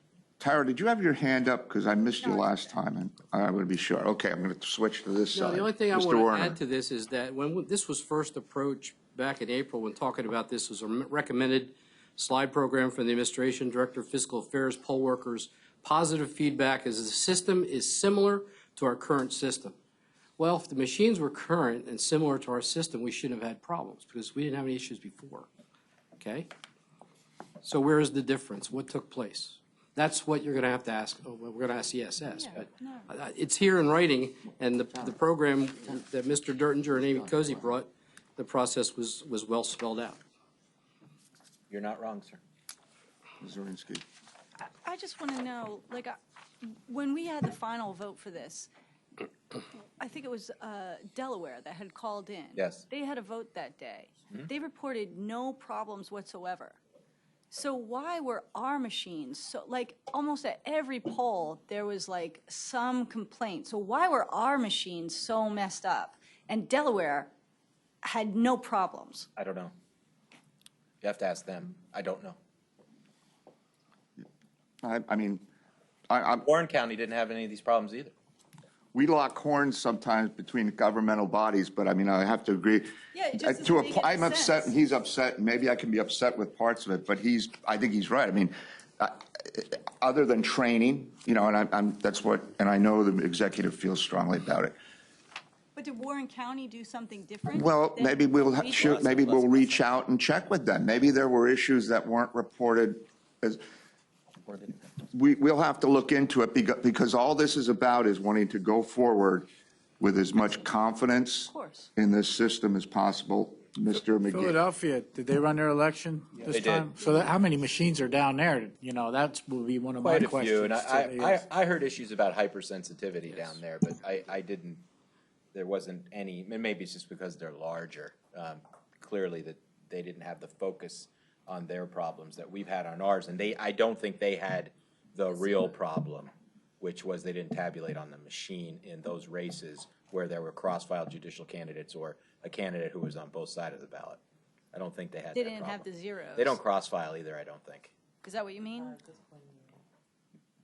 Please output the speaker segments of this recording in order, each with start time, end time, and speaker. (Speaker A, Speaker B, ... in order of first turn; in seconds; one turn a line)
Speaker A: 0.4-6.6
Speaker B: 2.2-2.5
Speaker C: 5.3-19.8
Speaker C: 20.4-25.5
Speaker C: 26.2-26.5
Speaker C: 27.6-40.2
Speaker B: 32.4-33.1
Speaker D: 41.7-42.4
Speaker A: 43.4-44.0
Speaker B: 44.8-48.7
Speaker B: 50.0-56.8
Speaker D: 52.5-52.8
Speaker B: 57.5-67.3
Speaker B: 68.0-69.3
Speaker D: 69.3-69.7
Speaker D: 71.0-72.4
Speaker A: 74.8-75.4
Speaker A: 76.1-76.5
Speaker D: 76.4-78.1
Speaker A: 78.9-94.8
Speaker B: 83.1-84.7
Speaker B: 95.8-99.8
Speaker A: 97.5-103.6
Speaker A: 105.0-109.5
Speaker A: 110.0-114.6
Speaker B: 111.5-111.9
Speaker E: 114.3-121.5
Speaker D: 116.4-117.1
Speaker D: 120.0-124.8
Speaker C: 123.3-123.6
Speaker D: 125.5-144.2
Speaker D: 144.7-147.9
Speaker B: 145.3-146.6
Speaker B: 148.2-149.0